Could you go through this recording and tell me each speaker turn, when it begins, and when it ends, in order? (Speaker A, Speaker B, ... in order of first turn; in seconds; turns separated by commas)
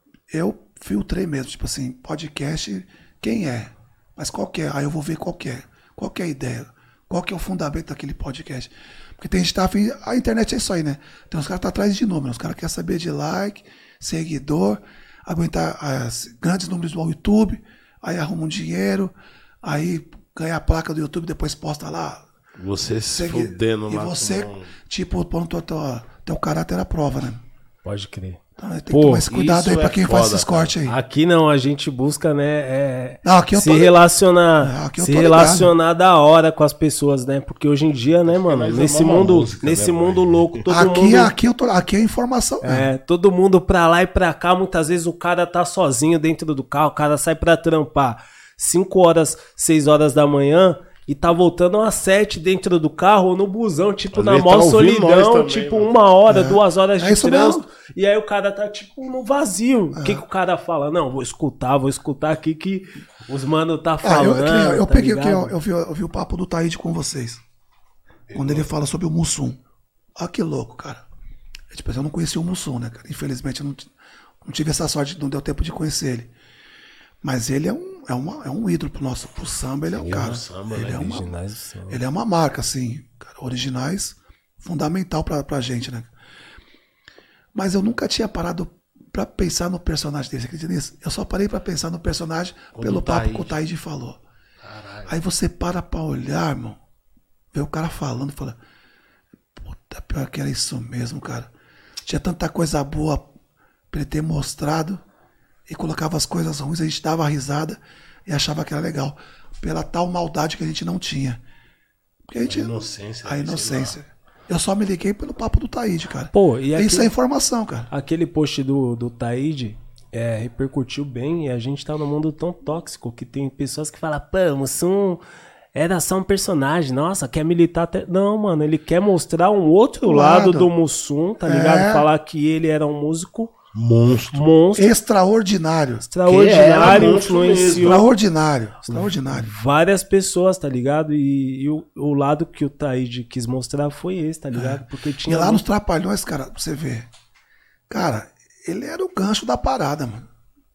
Speaker A: 0.3-22.2, Speaker B: 22.6-24.7, Speaker A: 23.1-27.4, Speaker C: 27.8-29.3, Speaker A: 28.6-31.0, Speaker B: 29.3-30.7, Speaker C: 30.8-41.3, Speaker A: 33.2-34.0, Speaker A: 34.6-35.7, Speaker B: 38.3-40.5, Speaker A: 40.7-42.9, Speaker C: 42.6-65.5, Speaker B: 54.1-56.0, Speaker A: 56.3-57.6, Speaker A: 59.9-60.2, Speaker A: 64.0-67.4, Speaker B: 68.3-68.7, Speaker A: 68.3-69.6, Speaker A: 70.2-71.0, Speaker A: 71.7-73.9, Speaker A: 74.4-76.3, Speaker A: 77.2-81.3, Speaker B: 79.9-81.3, Speaker C: 81.0-82.0, Speaker A: 81.9-86.1, Speaker A: 87.5-94.2, Speaker B: 92.7-93.5, Speaker B: 94.6-95.2, Speaker A: 95.1-96.8, Speaker A: 97.5-98.6, Speaker A: 99.6-101.5, Speaker A: 102.0-103.3, Speaker A: 103.9-105.0, Speaker A: 105.7-111.4, Speaker A: 112.3-117.9, Speaker B: 112.4-114.0, Speaker C: 116.3-117.1, Speaker C: 117.9-125.2, Speaker C: 125.7-133.5, Speaker A: 130.0-130.7, Speaker A: 131.4-132.1, Speaker B: 133.7-134.4, Speaker C: 134.3-134.9, Speaker A: 134.8-136.1, Speaker C: 136.1-138.1, Speaker B: 136.3-138.1, Speaker A: 137.8-139.5, Speaker C: 138.9-145.6, Speaker A: 144.5-147.1, Speaker A: 147.9-150.3